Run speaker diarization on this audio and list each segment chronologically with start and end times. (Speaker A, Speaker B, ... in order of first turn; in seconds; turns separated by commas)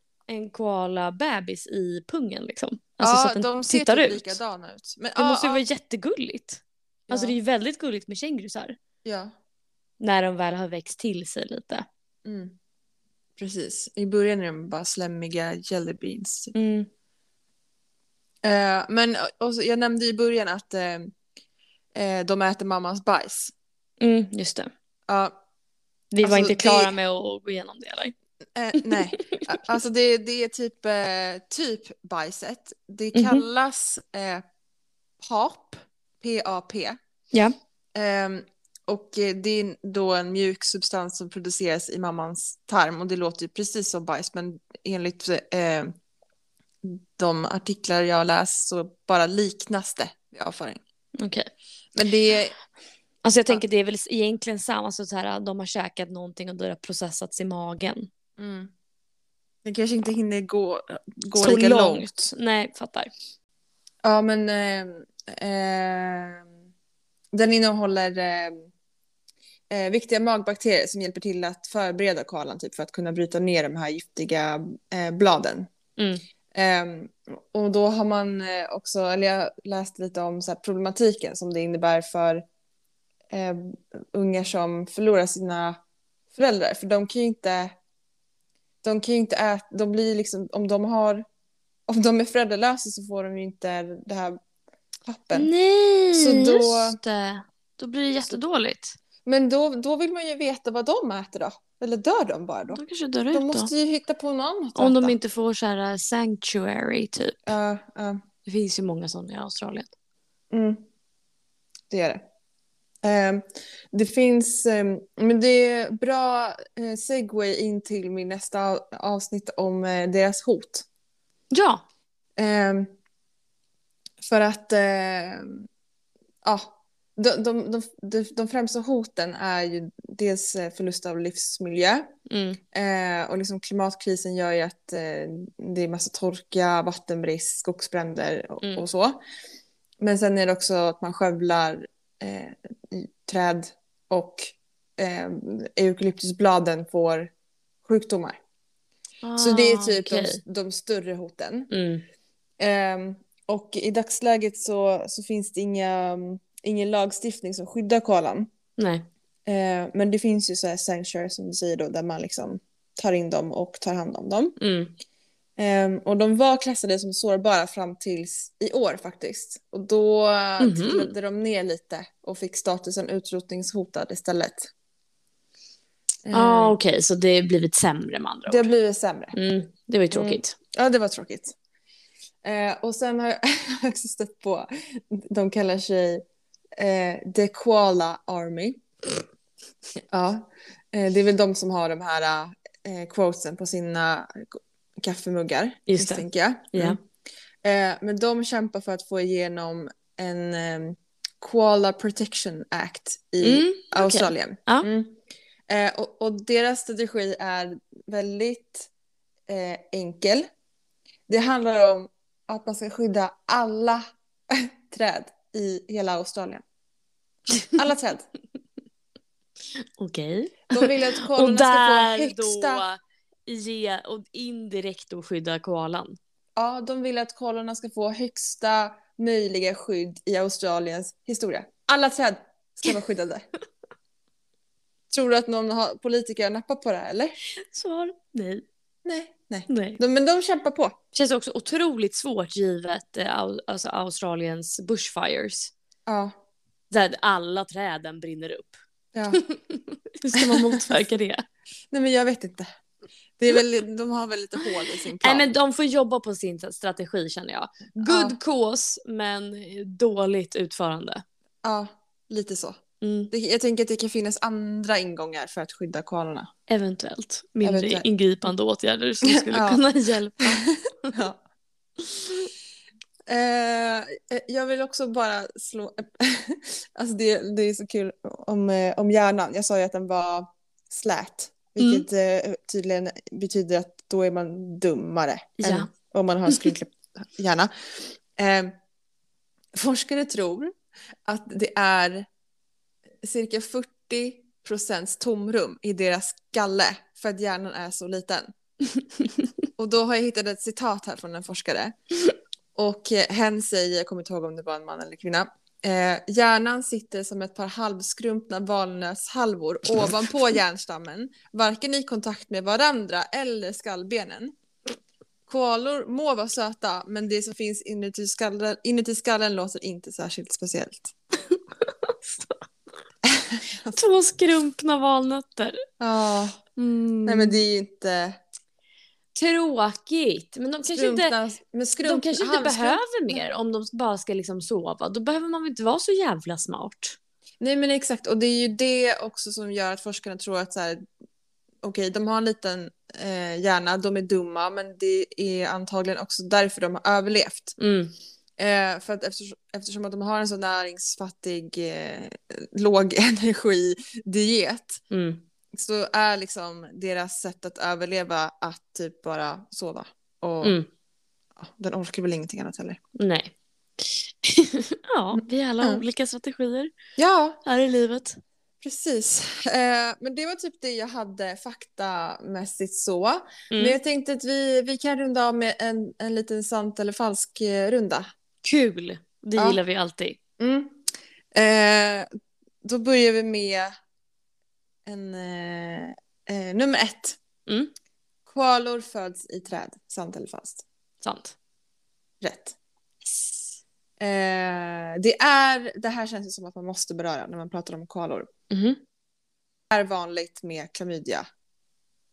Speaker A: 0.3-4.4, Speaker B: 3.0-5.6, Speaker A: 5.2-8.8, Speaker B: 7.1-7.4, Speaker B: 9.0-9.3, Speaker A: 10.0-11.8, Speaker B: 12.2-12.6, Speaker B: 13.4-16.5, Speaker A: 16.5-16.9, Speaker B: 18.4-21.1, Speaker B: 21.9-23.5, Speaker A: 24.0-24.7, Speaker B: 25.1-25.3, Speaker A: 26.1-28.1, Speaker B: 26.2-26.9, Speaker B: 28.5-34.4, Speaker A: 28.7-29.6, Speaker A: 33.1-33.4, Speaker B: 35.2-37.0, Speaker B: 37.9-45.9, Speaker B: 46.8-50.8, Speaker A: 51.2-51.5, Speaker B: 51.9-52.5, Speaker A: 53.2-58.1, Speaker B: 58.4-58.7, Speaker B: 59.6-62.1, Speaker A: 61.4-63.1, Speaker B: 64.0-66.5, Speaker B: 67.3-68.7, Speaker B: 69.7-75.7, Speaker A: 76.0-76.2, Speaker B: 76.5-82.4, Speaker B: 83.3-85.8, Speaker B: 86.3-87.7, Speaker B: 88.8-91.2, Speaker B: 91.9-94.4, Speaker B: 95.0-95.5, Speaker A: 95.3-99.0, Speaker B: 96.1-97.0, Speaker B: 99.2-102.8, Speaker A: 102.7-103.7, Speaker B: 103.3-105.2, Speaker A: 104.8-107.5, Speaker B: 107.5-108.2, Speaker A: 108.5-109.9, Speaker B: 110.5-110.8, Speaker B: 111.9-112.2, Speaker B: 113.0-120.8, Speaker A: 121.5-121.8, Speaker B: 122.4-122.9, Speaker B: 124.2-125.6, Speaker B: 126.4-132.1, Speaker A: 132.3-132.6, Speaker B: 132.7-139.2, Speaker B: 140.0-147.3, Speaker B: 147.8-148.4, Speaker A: 149.2-150.4, Speaker B: 149.4-151.7, Speaker A: 151.7-152.0, Speaker B: 152.6-158.5, Speaker A: 158.8-159.1, Speaker B: 159.4-164.6, Speaker A: 164.6-164.9, Speaker B: 165.6-174.7, Speaker A: 170.6-171.1, Speaker B: 176.2-176.8, Speaker A: 176.3-178.7, Speaker B: 178.5-179.3, Speaker A: 179.3-180.5, Speaker B: 180.1-181.5, Speaker B: 182.4-186.2, Speaker B: 186.8-188.8, Speaker B: 190.1-197.0, Speaker A: 195.9-197.0, Speaker B: 197.6-208.9, Speaker A: 203.4-204.9, Speaker B: 209.5-210.4, Speaker B: 211.3-216.6, Speaker A: 217.5-217.8, Speaker B: 217.8-218.3, Speaker A: 220.0-226.2, Speaker B: 220.7-222.8, Speaker B: 226.6-233.4, Speaker B: 235.1-237.3, Speaker A: 237.6-238.6, Speaker B: 239.0-240.9, Speaker A: 239.7-240.0, Speaker A: 241.1-245.7, Speaker B: 246.1-246.3, Speaker A: 246.9-248.8, Speaker B: 249.1-249.4, Speaker A: 249.3-251.4, Speaker B: 250.3-251.0, Speaker B: 251.9-252.7, Speaker B: 253.4-255.5, Speaker A: 255.2-261.2, Speaker B: 257.9-258.4, Speaker B: 261.6-266.5, Speaker A: 263.0-263.3, Speaker A: 266.7-271.2, Speaker B: 267.6-268.1, Speaker B: 269.2-269.8, Speaker B: 270.4-271.4, Speaker A: 272.1-272.5, Speaker B: 273.3-287.7, Speaker A: 281.8-282.1, Speaker A: 285.6-285.9, Speaker B: 288.3-288.7, Speaker B: 289.7-290.7, Speaker B: 291.3-292.3, Speaker B: 293.2-298.5, Speaker B: 299.8-301.9, Speaker B: 302.7-314.5, Speaker B: 315.5-321.1, Speaker A: 321.5-322.5, Speaker B: 323.2-324.0, Speaker A: 323.9-325.8, Speaker B: 326.0-326.6, Speaker A: 326.8-327.6, Speaker B: 327.2-328.4, Speaker A: 329.3-331.4, Speaker B: 330.9-333.4, Speaker A: 332.0-337.2, Speaker B: 337.6-341.0, Speaker B: 341.8-347.8, Speaker A: 347.8-348.1, Speaker B: 348.6-355.0, Speaker A: 355.1-355.4, Speaker B: 355.7-360.8, Speaker A: 360.6-360.9, Speaker B: 361.6-363.0, Speaker A: 363.1-366.9, Speaker B: 365.3-366.0, Speaker B: 367.2-367.6, Speaker A: 367.6-368.4, Speaker B: 368.8-378.2, Speaker A: 373.7-374.0, Speaker A: 378.6-380.4, Speaker B: 380.6-381.0, Speaker B: 381.5-382.3, Speaker B: 382.8-383.9, Speaker B: 385.1-387.4, Speaker A: 387.7-387.9, Speaker B: 388.5-390.8, Speaker A: 391.2-391.6, Speaker B: 392.4-392.8, Speaker B: 394.2-398.5, Speaker A: 398.7-399.0, Speaker B: 399.9-401.4